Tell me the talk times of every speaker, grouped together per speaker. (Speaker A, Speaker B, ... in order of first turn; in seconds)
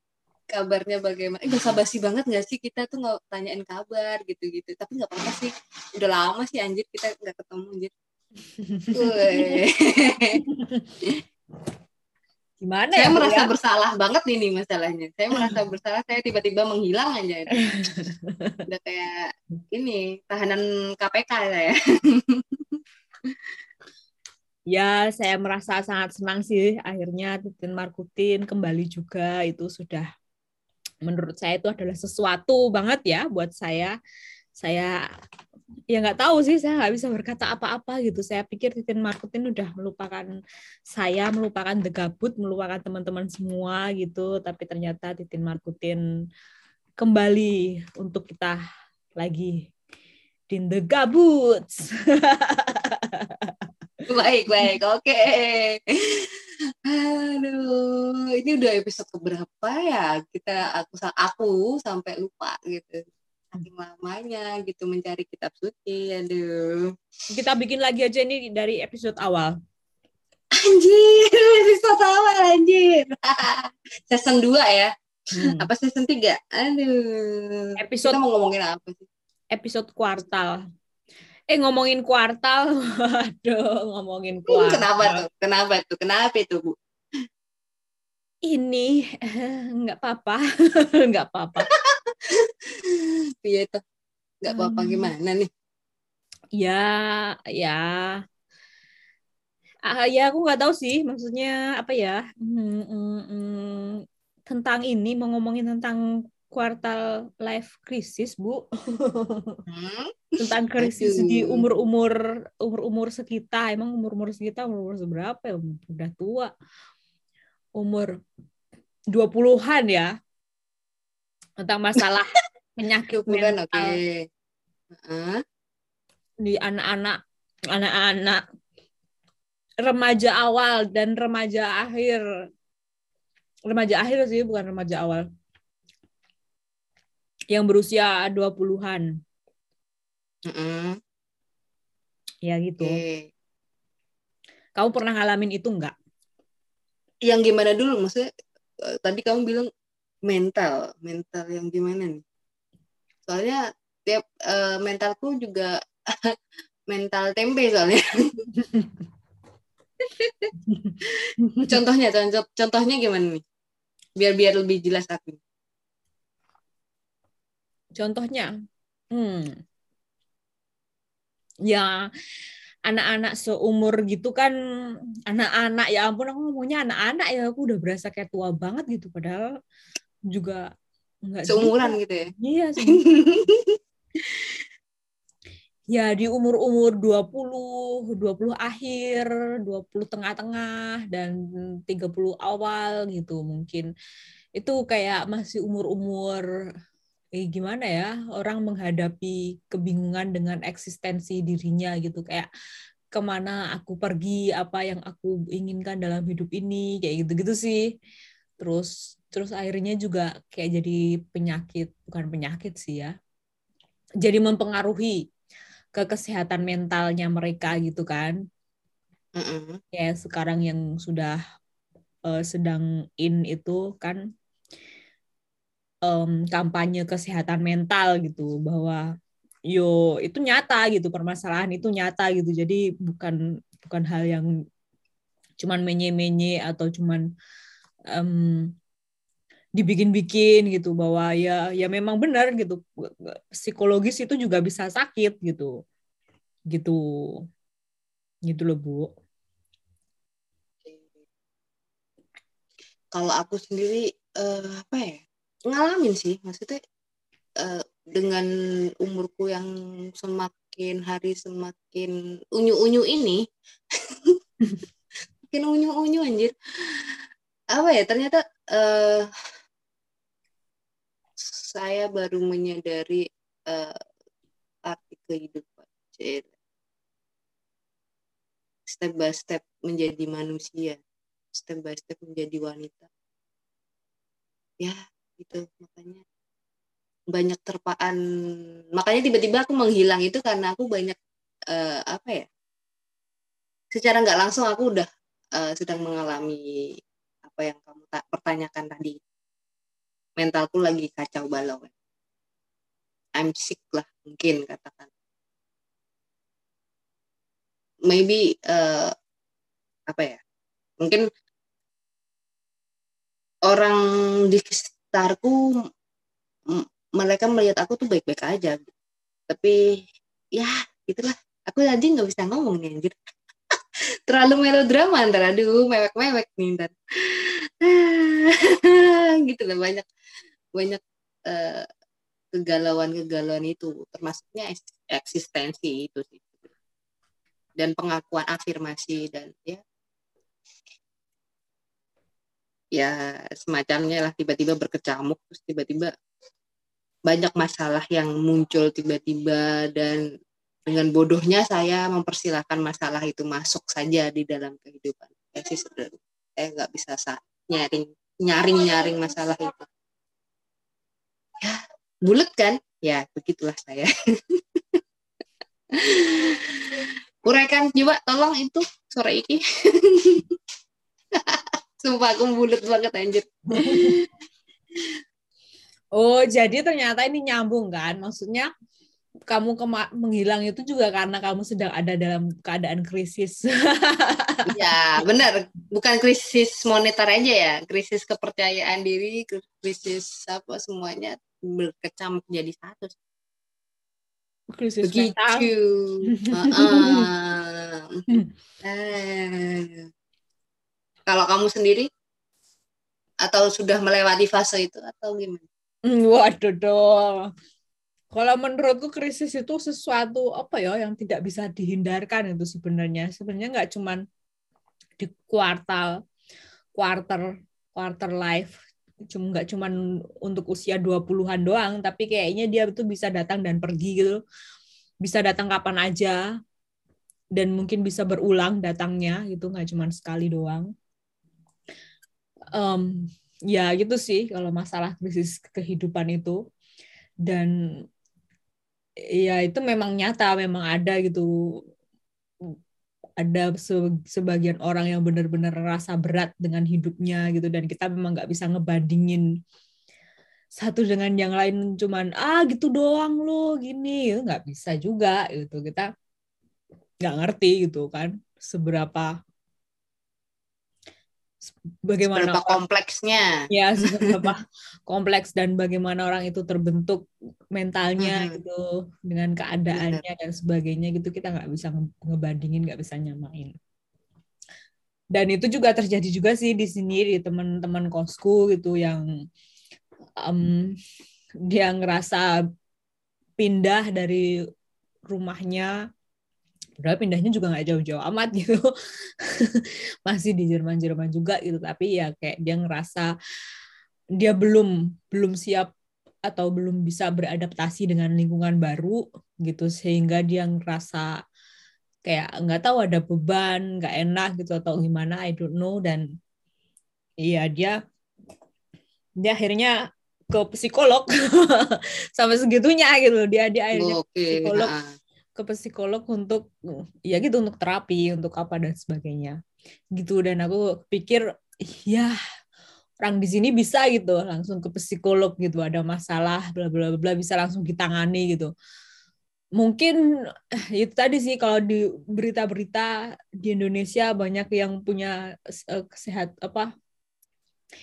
Speaker A: 0.5-7.9, 8.9-10.4, 12.9-17.7, 18.7-22.6, 54.1-56.3, 56.9-66.9, 70.5-79.0, 84.5-86.7, 92.3-93.8, 94.4-95.5, 109.7-111.6, 123.1-124.2, 125.0-125.4, 140.5-141.0, 142.8-143.3, 147.2-148.3, 148.9-149.7, 150.3-152.2, 153.2-156.3, 156.9-158.4, 160.0-160.5, 161.6-163.4, 164.2-165.4, 181.5-182.3, 182.8-183.8, 219.3-219.8, 250.8-251.1, 253.1-256.8, 257.6-258.4, 259.0-259.7, 260.2-263.4, 265.5-267.2, 267.7-269.2, 271.4-274.0, 274.9-276.5, 278.9-281.0, 281.5-283.1, 284.8-286.2, 287.3-288.2, 289.0-291.1, 291.7-292.5, 293.9-296.6, 297.4-299.2, 300.4-301.9, 303.4-305.1, 308.1-309.1, 310.1-310.4, 313.6-314.0, 314.5-315.6, 316.7-318.9, 319.5-319.7, 320.6-323.1, 324.3-330.1, 330.7-331.8, 332.5-336.6, 337.8-339.8, 342.9-346.1, 347.3-350.2, 350.9-359.9, 361.6-364.1, 366.0-370.5, 371.5-374.3, 384.7-393.1, 395.0-398.2, 398.8-400.0, 401.3-402.1, 403.4-405.6, 462.2-464.5, 468.2-468.6, 469.9-470.2, 513.9-515.1
Speaker B: 8.7-9.6, 10.4-10.9, 12.6-13.5, 17.8-18.6, 24.7-30.1, 31.0-33.9, 34.6-34.9, 35.9-40.3, 40.9-46.0, 47.0-48.6, 49.2-49.7, 50.5-53.7, 67.3-69.5, 75.3-75.7, 77.8-78.2, 79.5-80.6, 81.5-85.2, 88.5-91.7, 94.5-95.1, 96.6-98.2, 99.9-109.6, 110.4-116.5, 117.8-118.1, 119.1-120.1, 121.6-124.0, 126.4-127.2, 127.7-128.4, 129.8-132.2, 133.7-135.2, 137.5-139.1, 142.4-143.0, 144.8-145.9, 167.9-168.5, 169.1-169.6, 171.7-171.9, 172.9-174.5, 175.3-179.4, 180.3-180.6, 181.3-183.0, 185.9-191.3, 191.8-193.9, 194.6-196.4, 197.4-202.5, 203.1-207.8, 208.6-213.1, 214.2-215.2, 215.9-218.3, 219.9-221.4, 222.3-224.2, 226.0-229.0, 229.7-234.5, 235.6-237.2, 238.1-238.7, 239.8-245.7, 246.7-247.0, 248.4-249.1, 373.8-374.1, 376.1-378.7, 379.5-384.8, 394.7-395.7, 396.3-397.3, 406.1-407.5, 408.3-414.2, 415.2-416.1, 416.9-417.4, 417.9-418.7, 419.3-424.4, 425.2-426.4, 427.6-430.9, 432.7-436.6, 437.5-437.7, 439.4-441.5, 443.4-449.4, 450.8-456.1, 457.2-459.3, 462.1-462.8, 463.7-467.2, 467.7-473.7, 475.3-479.2, 480.4-480.9, 481.7-482.5, 483.6-484.4, 485.3-485.9, 487.0-488.9, 489.4-493.3, 494.4-495.9, 496.5-501.3, 502.2-506.2, 507.4-508.0, 509.4-509.9, 510.5-514.9, 515.5-516.7, 517.3-519.6, 520.1-521.4, 522.0-522.3, 523.2-528.7, 529.8-530.1, 531.0-533.1, 533.6-535.3, 535.9-536.9